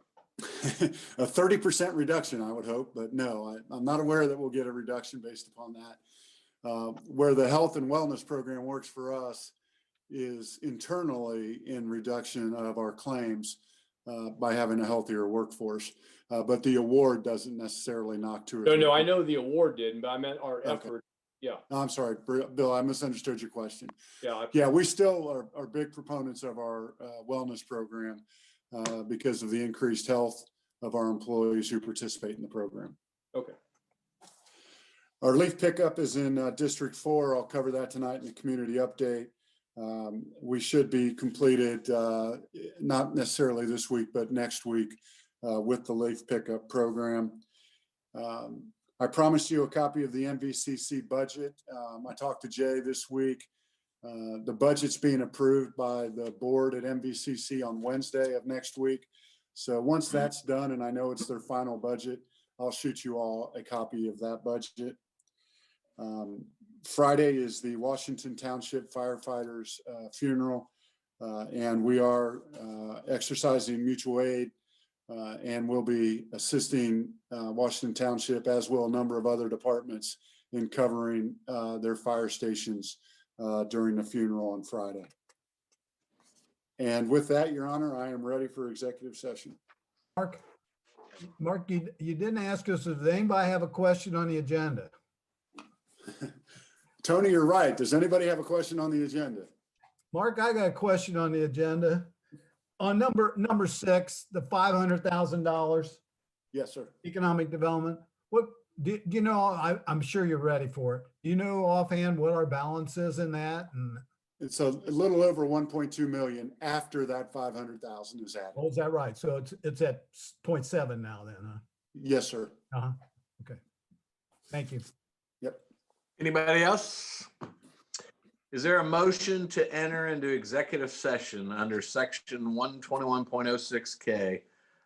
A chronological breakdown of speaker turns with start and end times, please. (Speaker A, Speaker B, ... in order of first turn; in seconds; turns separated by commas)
Speaker A: 0.5-6.0, Speaker A: 6.6-9.5, Speaker A: 10.1-19.1, Speaker B: 18.6-21.6, Speaker A: 20.6-20.9, Speaker A: 21.7-23.9, Speaker B: 24.2-24.6, Speaker A: 24.5-32.9, Speaker A: 35.2-47.4, Speaker A: 48.1-53.5, Speaker A: 54.0-65.0, Speaker A: 66.0-70.7, Speaker A: 71.2-74.5, Speaker A: 75.1-85.1, Speaker A: 86.8-89.6, Speaker C: 91.3-94.9, Speaker A: 97.0-99.5, Speaker C: 100.1-102.1, Speaker C: 102.8-106.0, Speaker A: 106.5-106.9, Speaker C: 107.0-114.0, Speaker A: 114.4-118.6, Speaker C: 118.6-121.6, Speaker A: 121.9-122.6, Speaker C: 122.7-123.6, Speaker C: 124.5-124.8, Speaker D: 126.2-127.3, Speaker D: 128.5-134.4